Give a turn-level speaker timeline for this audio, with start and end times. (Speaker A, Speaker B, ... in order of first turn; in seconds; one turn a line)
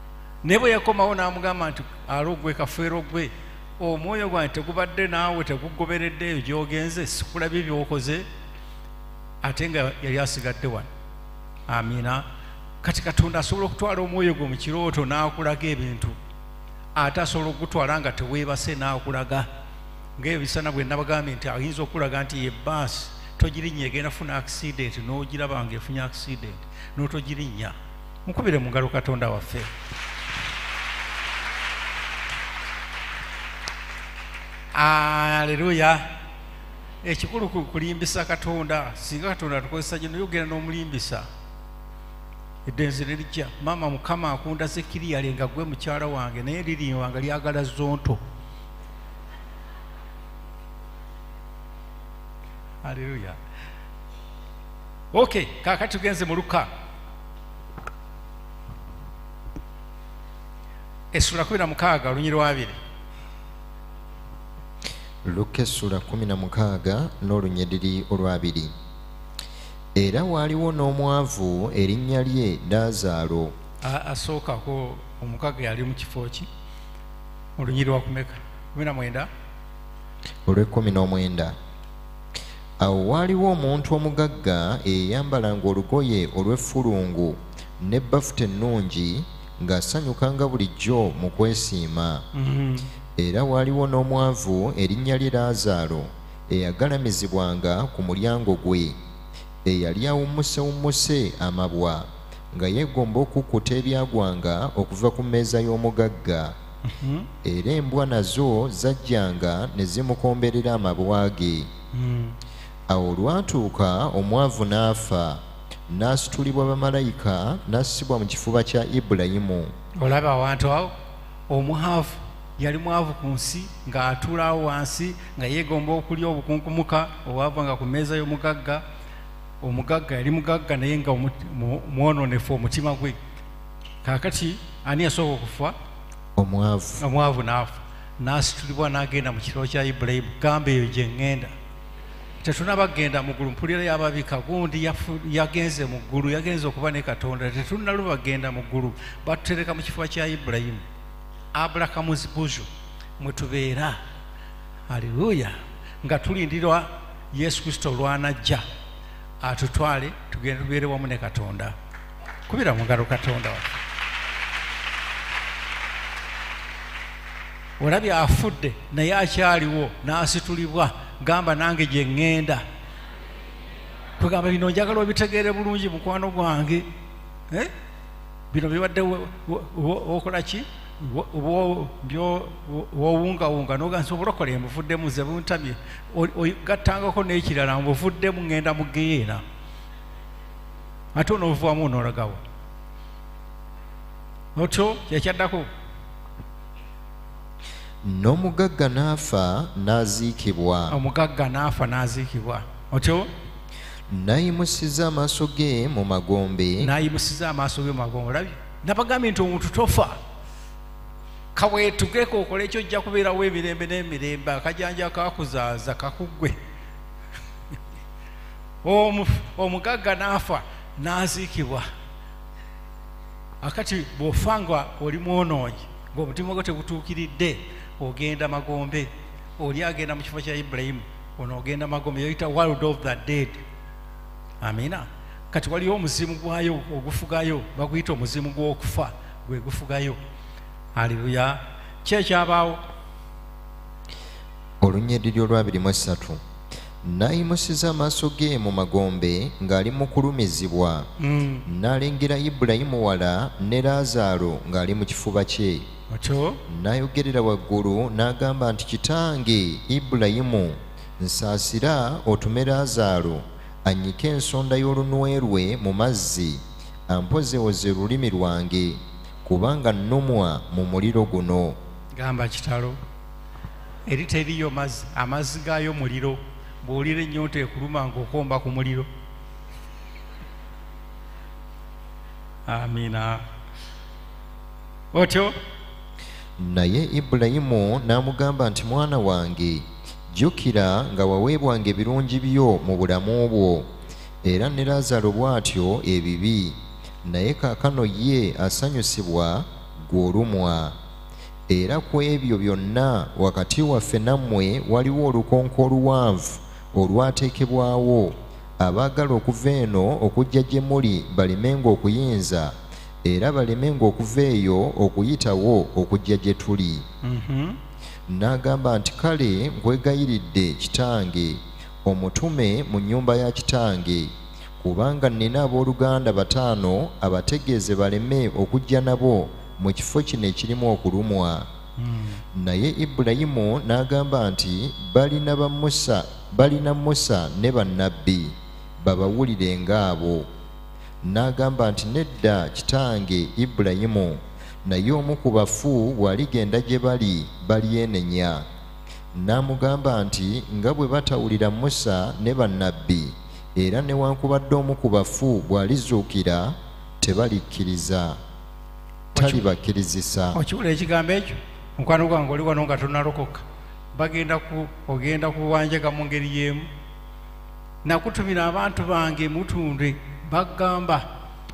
Speaker A: 0.4-8.2
Speaker A: 9.4-10.9
Speaker A: 11.7-12.2
Speaker A: 12.8-16.2
Speaker A: 16.9-19.5
Speaker A: 20.2-29.7
Speaker A: 34.7-36.1
Speaker A: 37.0-41.2
Speaker A: 42.6-48.2
Speaker A: 52.8-53.4
Speaker A: 55.1-56.7
Speaker A: 61.1-62.8
Speaker B: 65.2-68.7
Speaker B: 69.9-73.5
Speaker A: 73.8-76.5
Speaker A: 77.6-79.3
Speaker B: 80.5-81.5
Speaker B: 82.8-92.2
Speaker A: 92.3-92.9
Speaker B: 93.2-99.0
Speaker B: 99.6-106.5
Speaker A: 106.8-107.3
Speaker B: 107.4-111.7
Speaker A: 111.9-112.4
Speaker B: 112.9-119.7
Speaker A: 120.0-120.9
Speaker A: 121.5-128.8
Speaker A: 129.6-133.2
Speaker A: 134.0-135.7
Speaker B: 136.3-137.0
Speaker A: 137.0-141.5
Speaker A: 142.4-150.8
Speaker A: 151.5-152.7
Speaker A: 153.2-154.0
Speaker A: 154.9-158.6
Speaker A: 159.4-161.7
Speaker A: 162.5-163.6
Speaker A: 167.8-172.6
Speaker A: 174.2-176.9
Speaker A: 178.5-189.4
Speaker A: 191.1-192.4
Speaker A: 194.6-195.7
Speaker B: 198.0-200.9
Speaker A: 200.9-203.3
Speaker B: 204.1-206.9
Speaker A: 206.8-210.2
Speaker A: 211.5-216.6
Speaker A: 218.8-221.9
Speaker A: 223.6-233.6
Speaker A: 234.6-240.2
Speaker A: 240.9-242.8
Speaker B: 244.8-246.4
Speaker B: 247.0-251.1
Speaker A: 251.2-251.7
Speaker B: 251.7-255.9
Speaker A: 256.1-256.6
Speaker B: 256.7-271.8
Speaker A: 272.2-273.0
Speaker A: 274.1-279.1
Speaker A: 282.7-283.4
Speaker A: 285.1-285.5
Speaker B: 286.6-293.9
Speaker B: 294.4-300.9
Speaker B: 301.7-317.0
Speaker A: 317.2-317.8
Speaker B: 318.3-331.7
Speaker A: 332.0-332.4
Speaker B: 332.5-340.5
Speaker B: 341.2-348.6
Speaker B: 349.3-358.4
Speaker B: 359.3-360.6
Speaker A: 359.4-359.6
Speaker A: 360.5-363.6
Speaker A: 364.1-366.9
Speaker A: 368.0-371.2